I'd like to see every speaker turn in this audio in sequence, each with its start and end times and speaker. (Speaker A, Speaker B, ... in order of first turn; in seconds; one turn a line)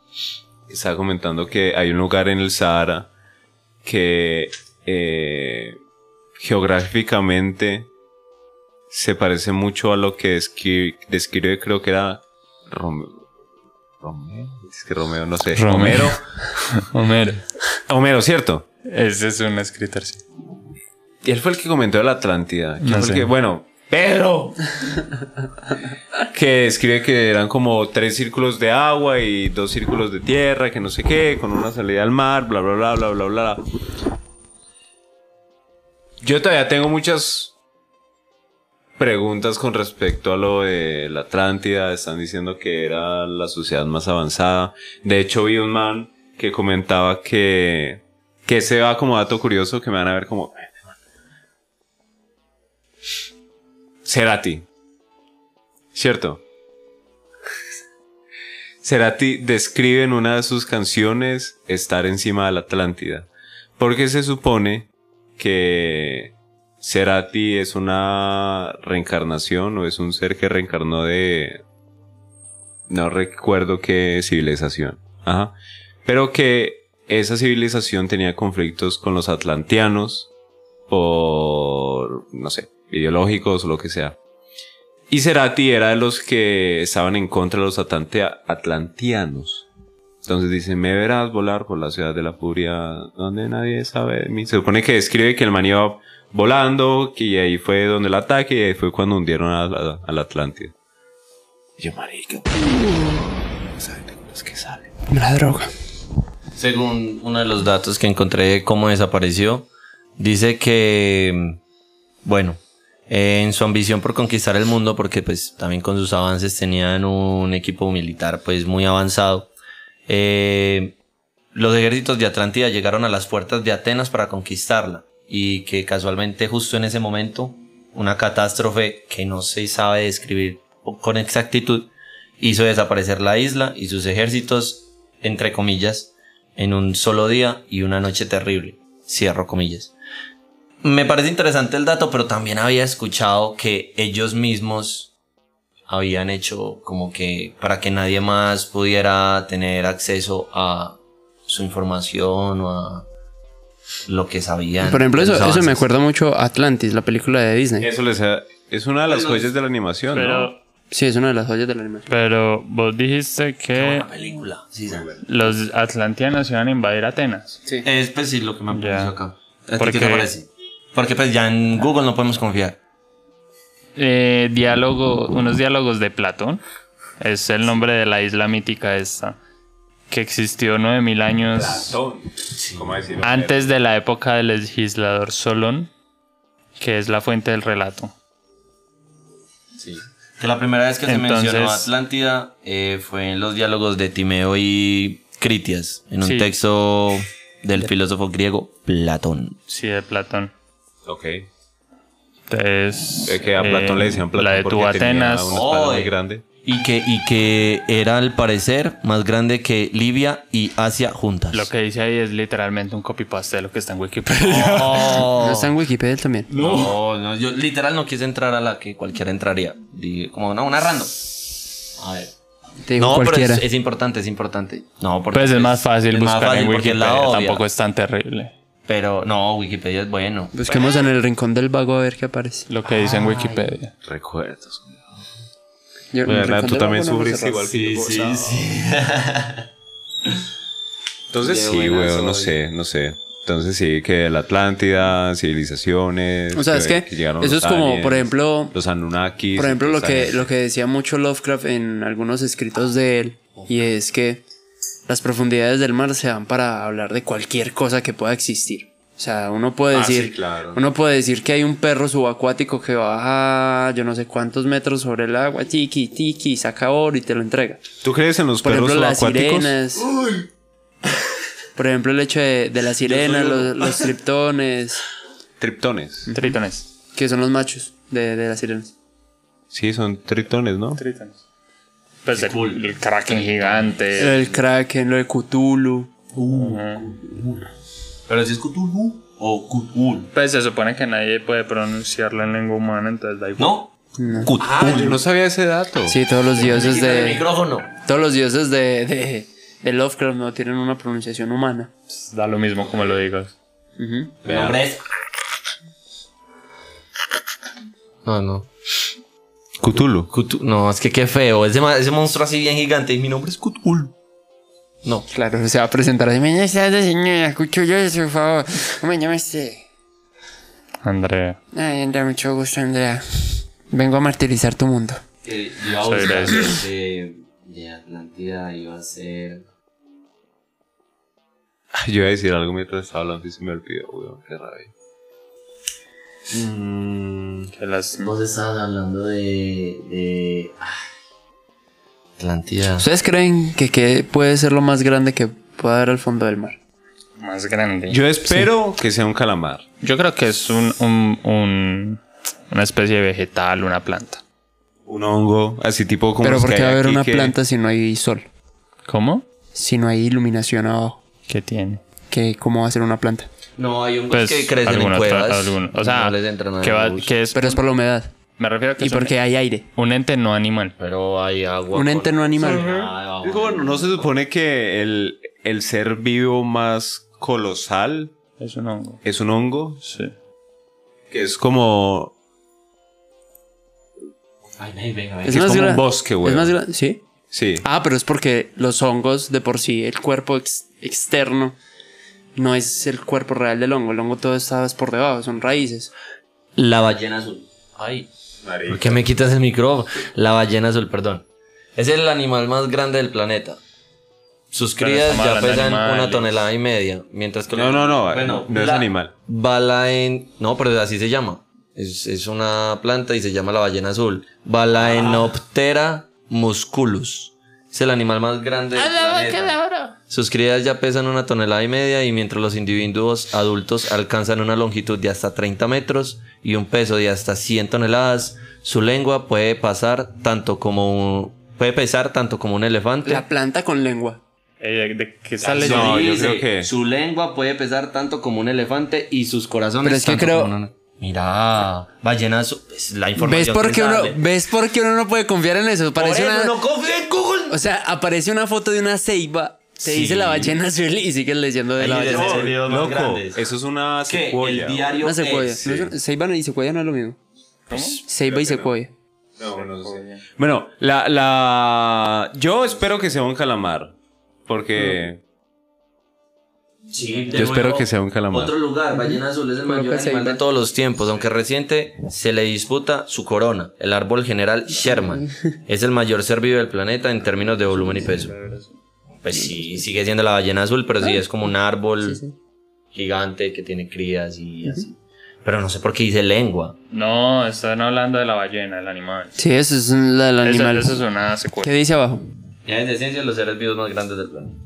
Speaker A: 0.7-3.1
Speaker A: 3.8-5.8
Speaker A: 6.4-7.9
Speaker A: 8.9-13.2
Speaker A: 14.0-16.2
Speaker B: 15.6-17.4
Speaker A: 17.9-18.7
Speaker B: 18.9-20.2
Speaker A: 21.2-25.0
Speaker B: 22.8-23.3
Speaker A: 26.2-33.6
Speaker A: 36.2-37.5
Speaker A: 39.0-50.8
Speaker A: 54.0-54.7
Speaker A: 55.9-56.4
Speaker A: 58.8-71.6
Speaker A: 72.9-75.5
Speaker A: 76.1-80.3
Speaker A: 80.9-84.2
Speaker A: 85.1-89.7
Speaker A: 90.2-100.7
Speaker A: 101.8-104.9
Speaker C: 105.1-105.7
Speaker D: 106.5-111.6
Speaker D: 112.2-119.5
Speaker D: 120.1-121.0
Speaker D: 121.5-139.9
Speaker D: 140.8-145.1
Speaker D: 145.9-153.1
Speaker D: 154.1-155.9
Speaker C: 154.8-157.9
Speaker A: 157.8-160.5
Speaker D: 159.1-159.5
Speaker B: 160.1-160.6
Speaker C: 160.9-162.1
Speaker B: 162.1-164.1
Speaker D: 163.8-165.1
Speaker A: 164.9-165.3
Speaker B: 165.2-167.6
Speaker D: 167.8-172.8
Speaker B: 168.7-169.2
Speaker B: 169.8-170.3
Speaker B: 174.0-176.6
Speaker B: 177.2-179.4
Speaker B: 180.1-181.9
Speaker A: 181.5-183.7
Speaker D: 182.6-182.9
Speaker B: 183.2-185.9
Speaker B: 186.8-188.1
Speaker D: 189.8-199.6
Speaker B: 191.1-191.9
Speaker B: 196.2-196.5
Speaker B: 199.7-200.5
Speaker A: 201.1-201.5
Speaker B: 202.5-205.6
Speaker A: 203.2-206.4
Speaker D: 205.5-206.1
Speaker D: 206.6-211.7
Speaker B: 211.5-215.3
Speaker D: 214.4-215.7
Speaker C: 215.3-216.5
Speaker B: 216.5-216.9
Speaker D: 216.6-221.3
Speaker D: 222.0-222.3
Speaker C: 222.8-223.7
Speaker D: 223.0-227.6
Speaker B: 225.3-228.5
Speaker D: 228.9-230.5
Speaker C: 230.5-232.7
Speaker B: 232.7-233.9
Speaker D: 232.8-233.7
Speaker A: 234.1-235.2
Speaker C: 236.1-237.6
Speaker A: 236.2-238.7
Speaker D: 237.7-239.7
Speaker A: 241.3-250.5
Speaker D: 241.4-242.6
Speaker C: 246.5-248.8
Speaker C: 249.6-254.4
Speaker C: 255.1-267.8
Speaker A: 259.9-260.8
Speaker A: 268.0-269.8
Speaker C: 268.6-270.1
Speaker D: 270.0-270.5
Speaker C: 271.8-275.0
Speaker D: 273.1-274.1
Speaker A: 275.6-276.3
Speaker C: 276.3-276.6
Speaker B: 276.3-276.9
Speaker C: 277.1-278.9
Speaker A: 279.7-281.0
Speaker B: 281.0-281.4
Speaker B: 282.2-284.4
Speaker D: 282.4-284.4
Speaker C: 284.2-286.1
Speaker D: 286.3-287.7
Speaker B: 286.5-287.1
Speaker D: 288.3-290.3
Speaker B: 290.3-293.8
Speaker D: 293.6-293.9
Speaker C: 294.2-295.0
Speaker D: 294.4-295.2
Speaker A: 294.6-296.2
Speaker C: 296.1-301.9
Speaker D: 296.6-297.9
Speaker B: 302.1-303.5
Speaker C: 304.0-304.3
Speaker D: 304.4-305.0
Speaker A: 304.4-304.8
Speaker D: 308.2-308.7
Speaker A: 309.8-310.3
Speaker D: 310.2-314.1
Speaker C: 315.3-319.9
Speaker B: 321.0-321.6
Speaker C: 321.7-325.2
Speaker D: 325.4-329.6
Speaker B: 326.0-326.8
Speaker A: 331.9-334.9
Speaker A: 336.5-337.7
Speaker B: 337.8-338.3
Speaker D: 338.2-341.1
Speaker D: 342.4-343.1
Speaker C: 343.0-346.8
Speaker B: 347.4-348.2
Speaker A: 348.1-349.8
Speaker B: 350.0-354.4
Speaker A: 355.1-357.6
Speaker C: 356.4-358.5
Speaker B: 359.1-359.4
Speaker C: 359.7-361.2
Speaker B: 361.5-362.0
Speaker C: 362.3-363.5
Speaker D: 363.8-367.3
Speaker B: 364.3-367.8
Speaker C: 367.5-368.3
Speaker B: 368.6-369.4
Speaker C: 369.0-369.9
Speaker B: 370.0-371.0
Speaker D: 371.0-374.3
Speaker C: 371.9-372.9
Speaker A: 372.6-378.3
Speaker B: 378.6-379.2
Speaker A: 379.2-380.0
Speaker B: 380.0-380.3
Speaker A: 381.3-382.3
Speaker D: 384.8-386.0
Speaker C: 385.4-387.2
Speaker A: 385.5-386.7
Speaker A: 387.5-387.8
Speaker C: 387.8-391.8
Speaker C: 392.6-396.1
Speaker D: 396.8-398.3
Speaker A: 398.6-399.2
Speaker D: 398.9-403.8
Speaker D: 404.7-419.8
Speaker B: 405.0-406.5
Speaker A: 407.7-409.3
Speaker C: 419.0-420.1
Speaker D: 420.3-433.4
Speaker C: 433.2-434.4
Speaker B: 434.8-436.6
Speaker D: 435.6-444.4
Speaker A: 435.8-436.9
Speaker C: 440.0-440.8
Speaker C: 443.4-446.8
Speaker D: 446.2-447.8
Speaker C: 447.7-452.8
Speaker D: 450.1-450.7
Speaker D: 452.0-453.6
Speaker A: 452.1-455.1
Speaker D: 454.3-456.1
Speaker C: 455.2-457.4
Speaker B: 457.9-458.2
Speaker C: 457.9-459.1
Speaker A: 458.4-458.9
Speaker A: 459.6-464.1
Speaker B: 459.8-460.4
Speaker A: 464.7-465.4
Speaker D: 467.1-478.5
Speaker A: 467.5-468.8
Speaker C: 469.1-470.6
Speaker B: 477.9-478.9
Speaker D: 479.4-482.4
Speaker C: 482.2-482.5
Speaker D: 483.1-487.0
Speaker B: 487.1-489.6
Speaker C: 489.6-491.2
Speaker B: 490.6-491.9
Speaker C: 491.8-492.5
Speaker D: 492.9-494.8